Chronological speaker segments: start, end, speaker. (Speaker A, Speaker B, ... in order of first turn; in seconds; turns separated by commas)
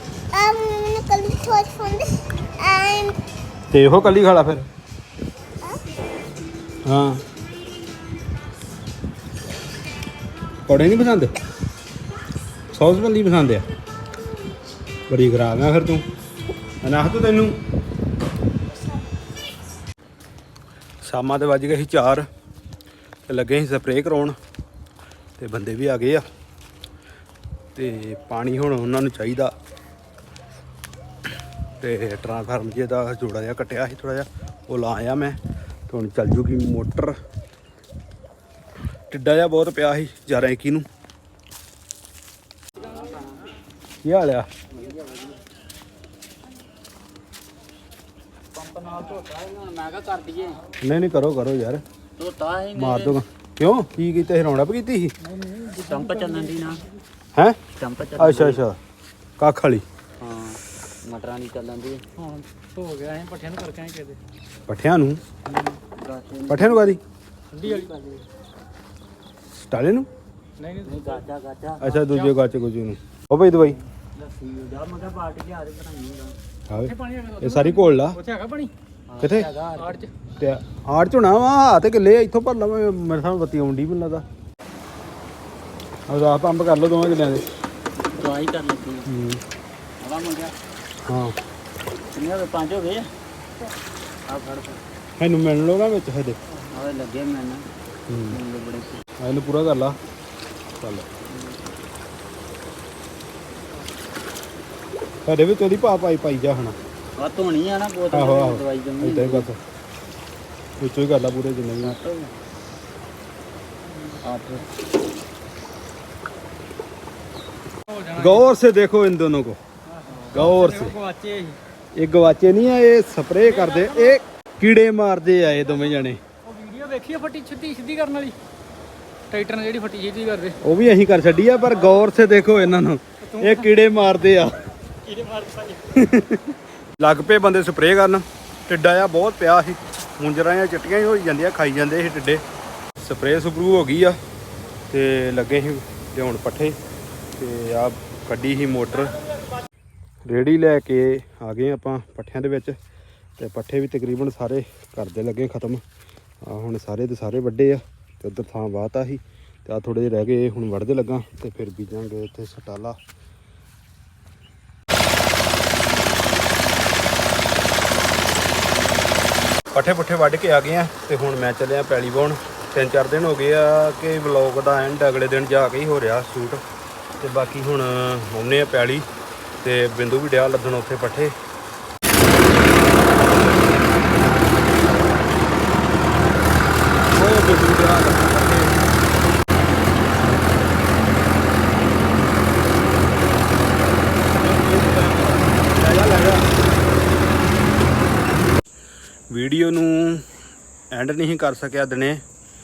Speaker A: 0.3-3.2, Speaker B: 3.7-4.7, Speaker B: 6.9-7.2, Speaker B: 10.7-11.3, Speaker B: 12.7-13.7, Speaker B: 15.1-16.1, Speaker B: 16.8-17.6, Speaker B: 21.0-22.2, Speaker B: 23.3-24.4, Speaker B: 25.4-26.2, Speaker B: 27.8-29.5, Speaker B: 31.8-35.4, Speaker B: 35.9-37.1, Speaker B: 39.1-40.9, Speaker C: 42.8-43.4, Speaker B: 44.0-44.5, Speaker C: 44.7-45.4, Speaker C: 48.5-50.6, Speaker B: 50.8-51.8, Speaker C: 52.2-53.2, Speaker B: 52.8-55.1, Speaker D: 55.2-56.5, Speaker C: 55.7-56.8, Speaker B: 57.3-57.6, Speaker C: 57.7-58.6, Speaker B: 58.2-58.8, Speaker B: 59.4-59.8, Speaker C: 60.2-62.0, Speaker D: 62.2-64.2, Speaker B: 64.7-65.2, Speaker C: 65.5-67.0, Speaker B: 66.5-67.0, Speaker D: 67.5-67.9, Speaker C: 67.6-68.2, Speaker B: 69.7-70.1, Speaker D: 70.6-71.2, Speaker C: 70.8-71.8, Speaker B: 71.8-73.8, Speaker D: 72.0-72.3, Speaker C: 73.5-76.3, Speaker B: 76.7-78.2, Speaker D: 76.8-78.7, Speaker C: 79.1-80.0, Speaker B: 79.2-79.5, Speaker D: 79.8-80.1, Speaker B: 80.4-84.2, Speaker B: 86.1-87.4, Speaker C: 88.0-89.1, Speaker B: 89.1-89.4, Speaker C: 90.0-90.5, Speaker B: 91.0-91.4, Speaker C: 92.1-93.1, Speaker C: 94.3-94.8, Speaker B: 95.2-96.4, Speaker C: 96.5-97.6, Speaker B: 98.1-98.4, Speaker C: 98.3-99.0, Speaker B: 99.2-100.0, Speaker B: 100.8-101.1, Speaker B: 105.2-106.8, Speaker C: 107.2-109.5, Speaker B: 108.1-109.6, Speaker B: 110.8-112.0, Speaker C: 111.8-112.3, Speaker C: 114.2-114.7, Speaker D: 117.9-118.4, Speaker B: 118.2-119.6, Speaker D: 120.0-121.6, Speaker B: 120.3-121.0, Speaker B: 122.0-126.2, Speaker D: 123.5-124.2, Speaker D: 126.5-128.4, Speaker D: 129.3-130.6, Speaker B: 130.6-134.6, Speaker D: 133.3-133.7, Speaker D: 135.0-135.8, Speaker B: 135.9-142.4, Speaker B: 143.0-144.2, Speaker B: 144.9-146.8, Speaker B: 147.4-149.2, Speaker B: 150.3-152.8, Speaker B: 153.4-155.8, Speaker B: 156.4-162.9, Speaker B: 169.7-176.6, Speaker B: 177.2-179.1, Speaker B: 179.6-181.3, Speaker B: 187.1-188.8, Speaker B: 194.3-196.4, Speaker B: 199.3-200.2, Speaker B: 200.9-202.2